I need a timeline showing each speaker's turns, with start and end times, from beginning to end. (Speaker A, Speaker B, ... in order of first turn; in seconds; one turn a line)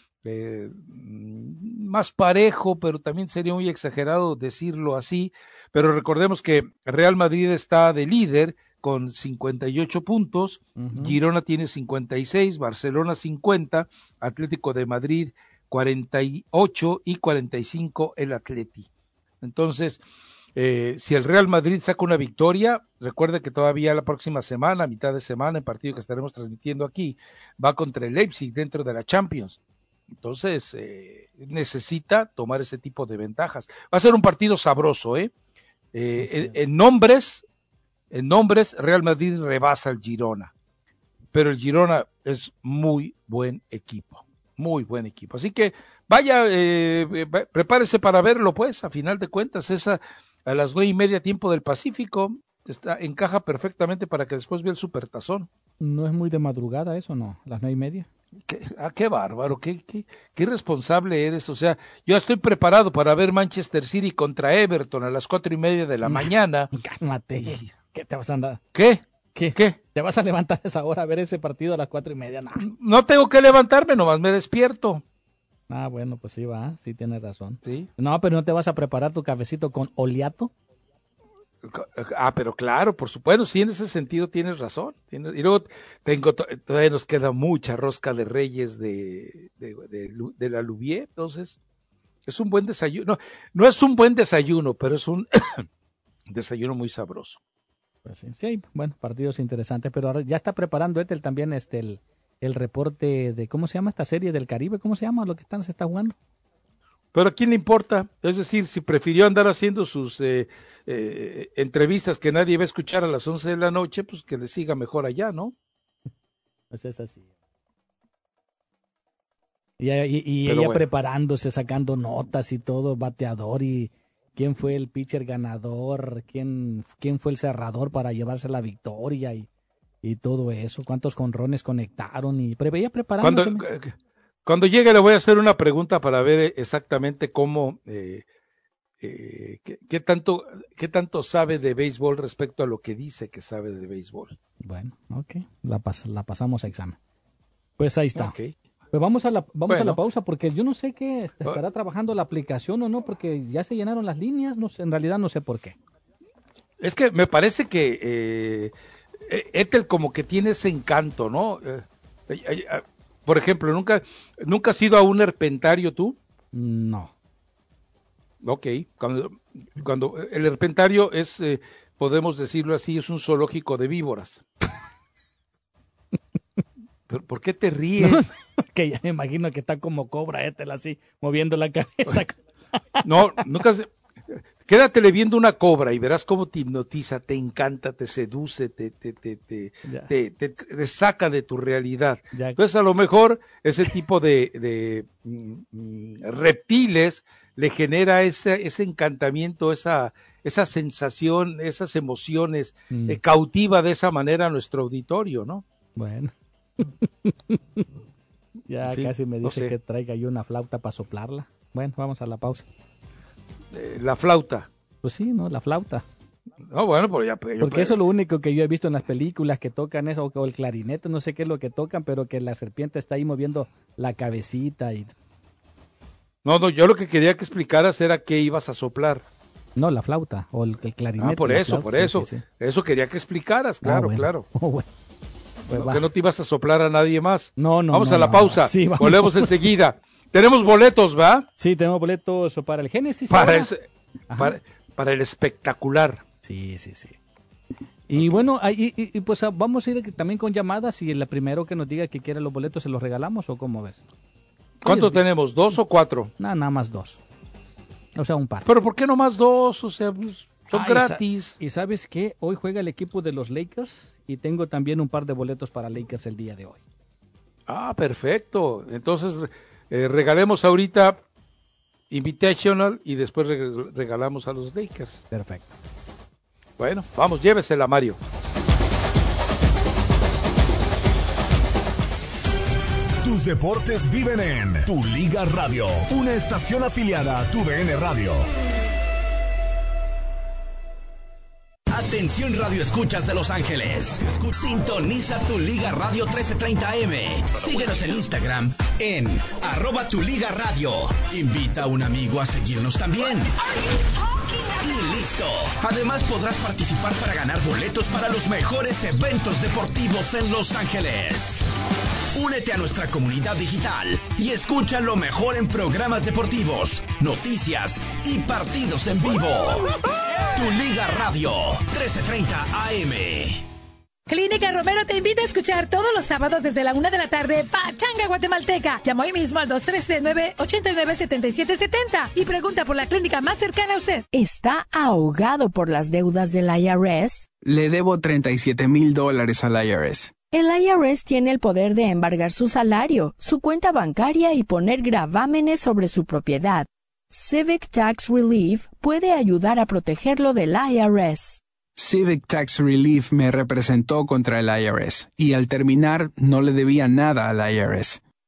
Speaker A: 0.2-18.9
Speaker B: 10.8-11.2
Speaker A: 19.4-20.0
Speaker A: 20.6-29.6
Speaker A: 30.1-35.3
Speaker A: 35.9-37.4
Speaker B: 36.2-36.6
Speaker A: 38.1-40.5
Speaker A: 41.3-55.5
Speaker B: 55.8-58.1
Speaker A: 58.4-66.7
Speaker B: 66.0-68.6
Speaker A: 67.4-67.7
Speaker A: 68.7-69.8
Speaker B: 69.3-72.7
Speaker A: 72.6-75.0
Speaker B: 75.7-80.5
Speaker A: 77.6-77.9
Speaker A: 81.6-91.6
Speaker A: 92.2-95.7
Speaker A: 96.3-97.4
Speaker B: 98.0-106.2
Speaker A: 107.1-115.5
Speaker B: 116.7-117.3
Speaker B: 119.8-129.5
Speaker A: 120.5-120.8
Speaker B: 130.0-133.6
Speaker A: 133.2-138.2
Speaker A: 139.0-144.4
Speaker B: 144.6-147.0
Speaker B: 147.8-148.3
Speaker A: 148.1-148.5
Speaker B: 148.9-155.8
Speaker A: 149.7-150.0
Speaker A: 156.8-158.7
Speaker A: 159.2-166.2
Speaker B: 166.5-167.1
Speaker A: 168.4-174.4
Speaker A: 177.1-178.3
Speaker B: 178.0-182.4
Speaker A: 183.0-205.6
Speaker B: 189.8-190.1
Speaker B: 192.3-192.6
Speaker B: 202.9-203.2
Speaker B: 205.9-207.8
Speaker B: 208.7-212.7
Speaker A: 208.8-209.7
Speaker A: 213.7-214.7
Speaker B: 215.0-216.0
Speaker A: 216.6-218.0
Speaker B: 217.6-225.1
Speaker A: 226.4-229.2
Speaker B: 229.8-232.4
Speaker A: 231.2-234.4
Speaker B: 233.8-234.8
Speaker B: 235.7-236.0
Speaker A: 235.7-241.4
Speaker B: 237.6-239.5
Speaker B: 241.6-243.7
Speaker A: 243.3-243.8
Speaker B: 244.3-244.6
Speaker A: 244.3-246.2
Speaker B: 246.4-247.2
Speaker B: 248.1-254.0
Speaker A: 248.1-248.4
Speaker A: 254.8-256.3
Speaker B: 254.8-255.2
Speaker B: 256.4-257.2
Speaker B: 258.1-258.7
Speaker A: 258.6-261.6
Speaker B: 260.7-266.8
Speaker A: 267.7-271.2
Speaker A: 272.1-275.2
Speaker B: 275.3-275.7
Speaker A: 276.8-278.2
Speaker C: 283.2-288.5
Speaker D: 291.9-303.5
Speaker D: 304.8-311.6
Speaker D: 312.3-323.6
Speaker E: 324.3-334.2
Speaker F: 334.3-337.5
Speaker G: 337.6-340.3
Speaker F: 340.5-351.6
Speaker G: 351.9-358.2